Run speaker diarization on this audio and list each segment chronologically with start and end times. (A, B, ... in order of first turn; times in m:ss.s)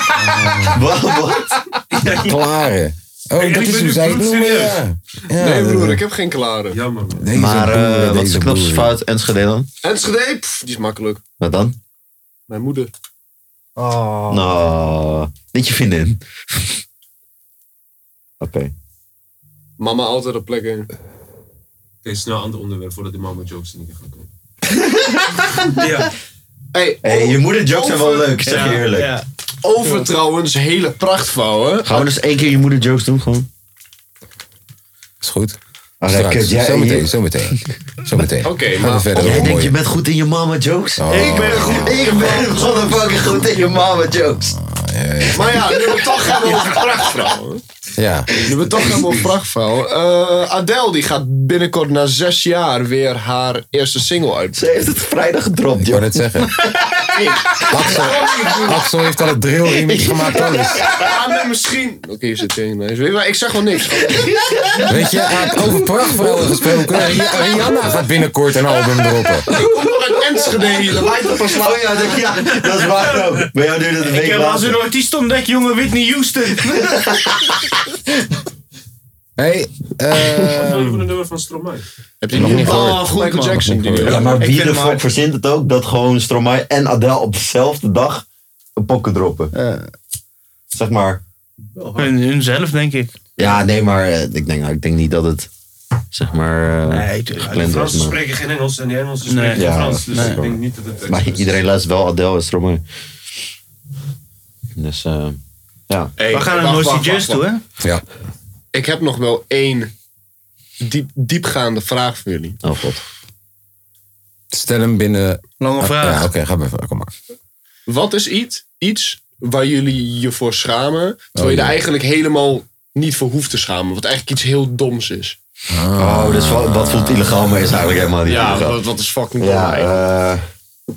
0:00.2-0:00.8 A
0:00.7-0:01.6 B
0:01.9-0:02.3 C
0:02.1-0:06.0 A
0:03.4-0:04.8 C
0:05.4-0:06.8 D
0:06.7-0:07.3 C
0:07.2-0:09.0 A
0:07.4-0:09.7 B
0:09.8-0:11.2 D
0:11.4-0:11.8 B
0:12.5-0:12.9 D
0:13.8-0:14.5 E
0:14.3-0:16.8 B
0:18.4-0:18.7 B
0:19.8-0:20.9 D
0:22.0-0:24.3 C
0:25.7-0:26.1 C
0:26.7-0:28.8 D
0:27.0-0:29.1 B
0:28.4-0:29.2 E
0:29.6-0:32.1 D
0:29.8-0:30.1 E
0:31.8-0:33.5 B
0:35.2-0:39.8 A
0:36.0-0:37.1 B
0:38.4-0:39.5 D
0:39.2-0:44.5 B
0:41.0-0:42.0 A
0:41.1-0:42.9 E
0:44.4-0:45.7 A
0:45.3-0:47.6 D
0:46.1-0:46.8 B
0:48.0-0:49.2 A
0:48.4-0:54.6 D
0:54.5-0:56.2 B
0:55.8-0:56.6 A
0:57.1-0:58.3 D
0:57.7-1:00.8 A
0:57.9-0:58.5 B
0:59.9-1:01.1 B
1:01.0-1:04.5 D
1:04.9-1:09.5 A
1:09.5-1:11.7 D
1:10.7-1:14.8 B
1:14.0-1:17.4 E
1:19.4-1:21.1 A
1:20.5-1:21.9 C
1:22.2-1:24.3 D
1:22.3-1:24.1 A
1:22.5-1:25.0 E
1:24.0-1:28.2 B
1:28.8-1:29.5 B
1:29.5-1:29.9 E
1:30.7-1:31.2 B
1:31.7-1:32.2 C
1:32.0-1:33.1 E
1:33.4-1:35.5 B
1:36.1-1:38.2 B
1:36.9-1:37.9 E
1:37.6-1:41.6 C
1:39.3-1:40.4 E
1:39.5-1:42.8 B
1:44.8-1:46.1 B
1:46.2-1:47.4 D
1:46.3-1:47.6 E
1:48.7-1:49.9 D
1:50.8-1:52.6 D
1:52.6-1:53.0 B
1:54.5-1:57.1 A
1:55.6-1:56.3 E
1:57.9-2:05.4 D
2:01.4-2:01.8 A
2:05.7-2:07.8 A
2:06.0-2:08.8 B
2:08.2-2:09.9 D
2:09.4-2:10.4 B